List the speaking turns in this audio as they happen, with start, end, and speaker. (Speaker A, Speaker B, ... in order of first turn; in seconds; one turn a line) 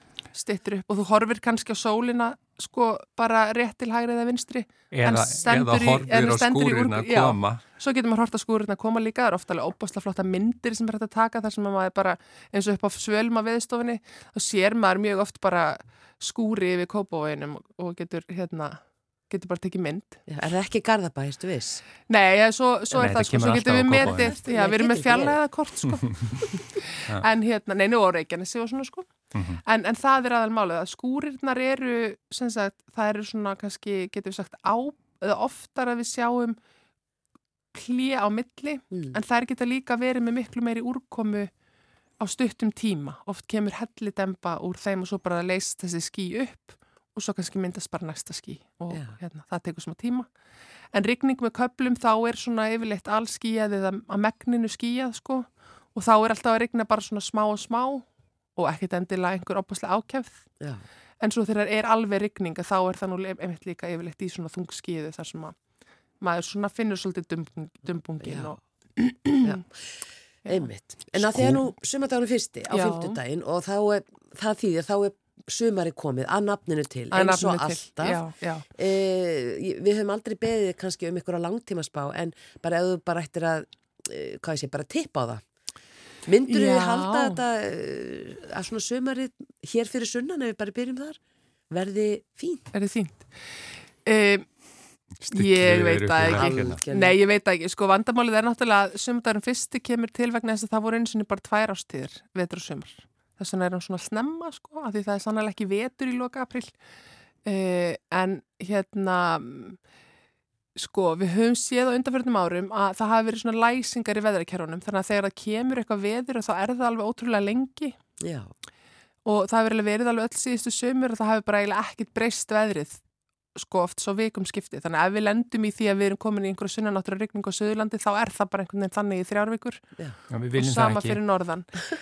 Speaker A: 0.3-20.2
Speaker B: 4.9-7.6
Speaker C: 20.3-21.9
Speaker A: 22.1-26.3
Speaker B: 22.9-24.4
Speaker C: 24.0-25.4
Speaker A: 26.9-36.6
Speaker B: 29.3-29.6
Speaker A: 37.7-41.5
Speaker C: 38.9-39.2
Speaker A: 42.2-50.3
Speaker C: 48.9-49.2
Speaker A: 50.9-60.5
Speaker A: 61.2-65.7
Speaker A: 66.2-69.6
Speaker C: 68.2-68.6
Speaker A: 70.5-71.7
Speaker C: 70.5-78.2
Speaker A: 72.7-73.2
Speaker A: 77.1-78.7
Speaker C: 78.8-85.4
Speaker C: 86.2-91.2
Speaker A: 86.5-87.4
Speaker C: 91.7-92.7
Speaker A: 92.7-93.4
Speaker A: 94.0-94.5
Speaker B: 95.2-96.8
Speaker A: 95.3-106.7
Speaker C: 96.3-97.2
Speaker A: 107.5-109.8
Speaker A: 110.8-118.0
Speaker C: 118.2-118.5
Speaker A: 119.2-123.0
Speaker A: 123.5-129.8
Speaker B: 130.3-131.2
Speaker A: 130.6-131.8